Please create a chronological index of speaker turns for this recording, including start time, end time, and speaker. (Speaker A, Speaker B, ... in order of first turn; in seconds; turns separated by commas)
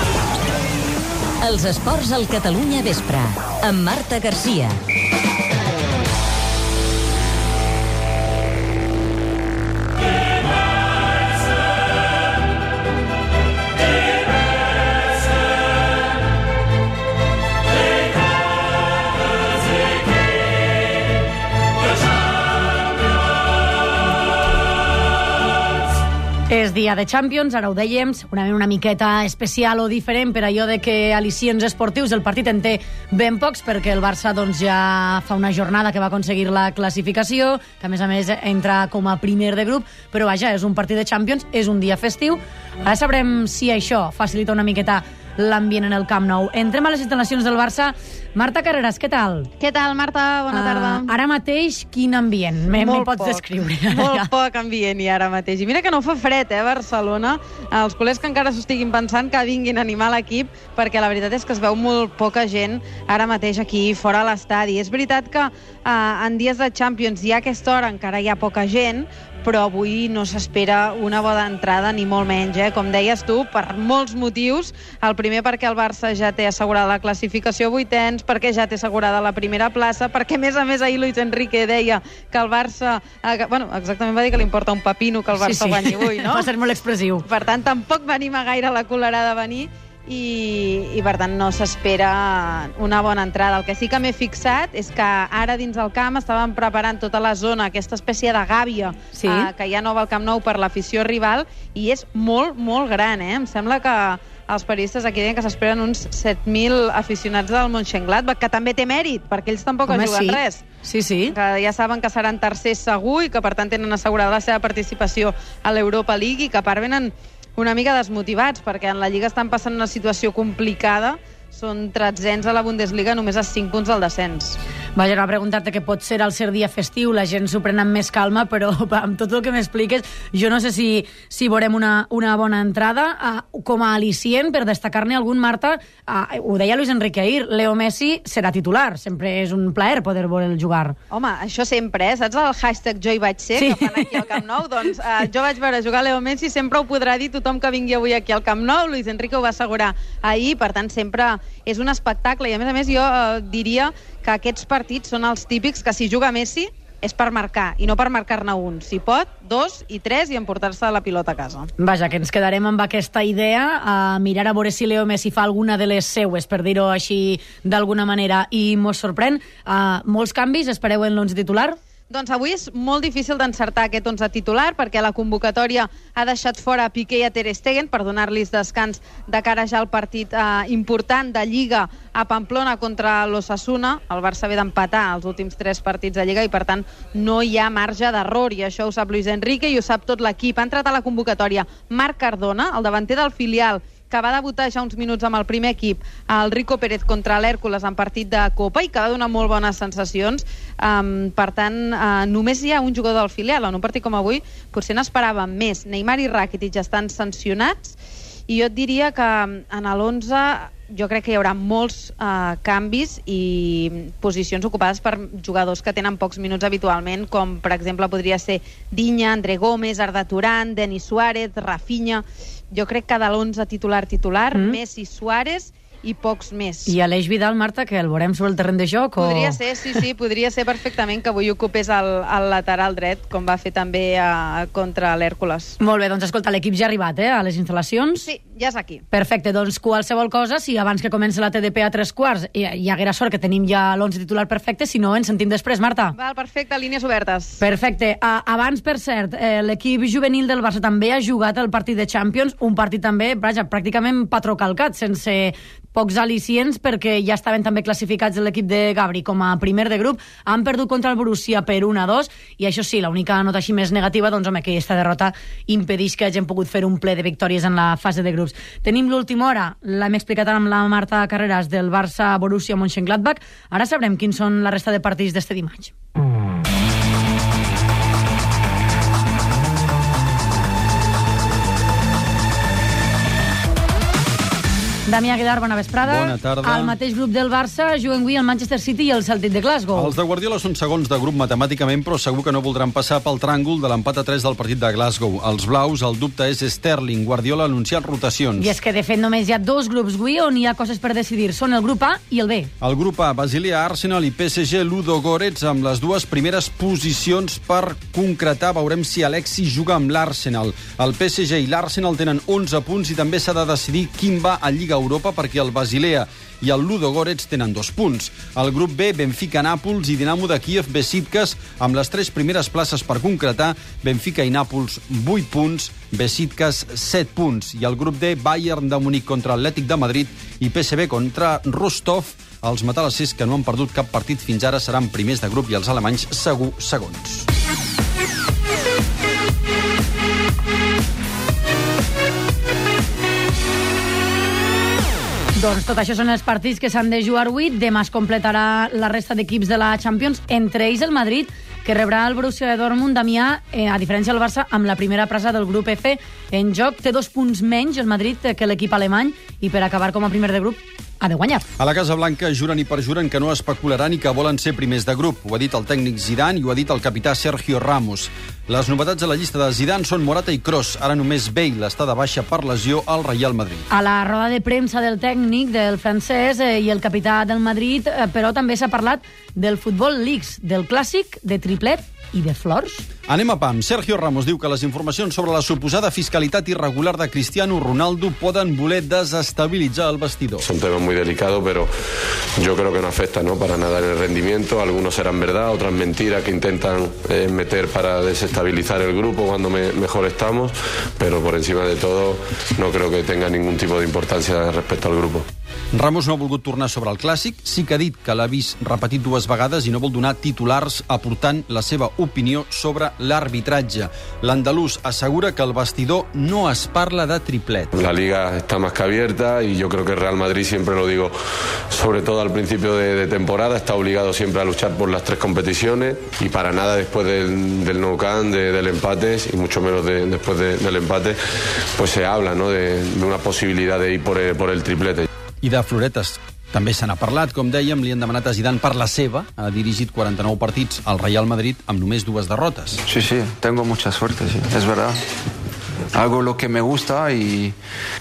Speaker A: 1.4-4.8, Speaker B: 26.5-49.5, Speaker C: 49.6-51.1, Speaker B: 50.5-54.3, Speaker C: 52.8-86.5, Speaker B: 85.4-87.2, Speaker C: 87.2-110.6, Speaker B: 99.1-99.5, Speaker B: 109.9-111.3, Speaker C: 111.3-124.6, Speaker B: 125.0-141.0, Speaker C: 141.1-161.7, Speaker B: 143.6-144.0, Speaker B: 161.8-171.8, Speaker C: 172.1-208.0, Speaker C: 208.5-226.9, Speaker B: 226.9-229.6, Speaker C: 229.2-235.8, Speaker B: 235.8-238.3, Speaker C: 238.2-239.0, Speaker B: 239.1-246.2, Speaker C: 246.1-247.6, Speaker B: 247.6-275.9, Speaker B: 285.1-290.1, Speaker D: 286.0-287.0, Speaker D: 289.9-298.7, Speaker B: 298.6-302.7, Speaker D: 302.8-337.5, Speaker B: 345.6-361.7, Speaker D: 361.8-373.9, Speaker B: 373.9-383.1, Speaker D: 383.3-390.7, Speaker E: 390.6-391.9, Speaker E: 392.6-405.5, Speaker D: 405.9-417.9, Speaker E: 418.0-421.4, Speaker E: 421.9-431.4, Speaker E: 432.0-435.3, Speaker D: 435.6-443.0, Speaker F: 443.1-445.2, Speaker F: 446.1-447.8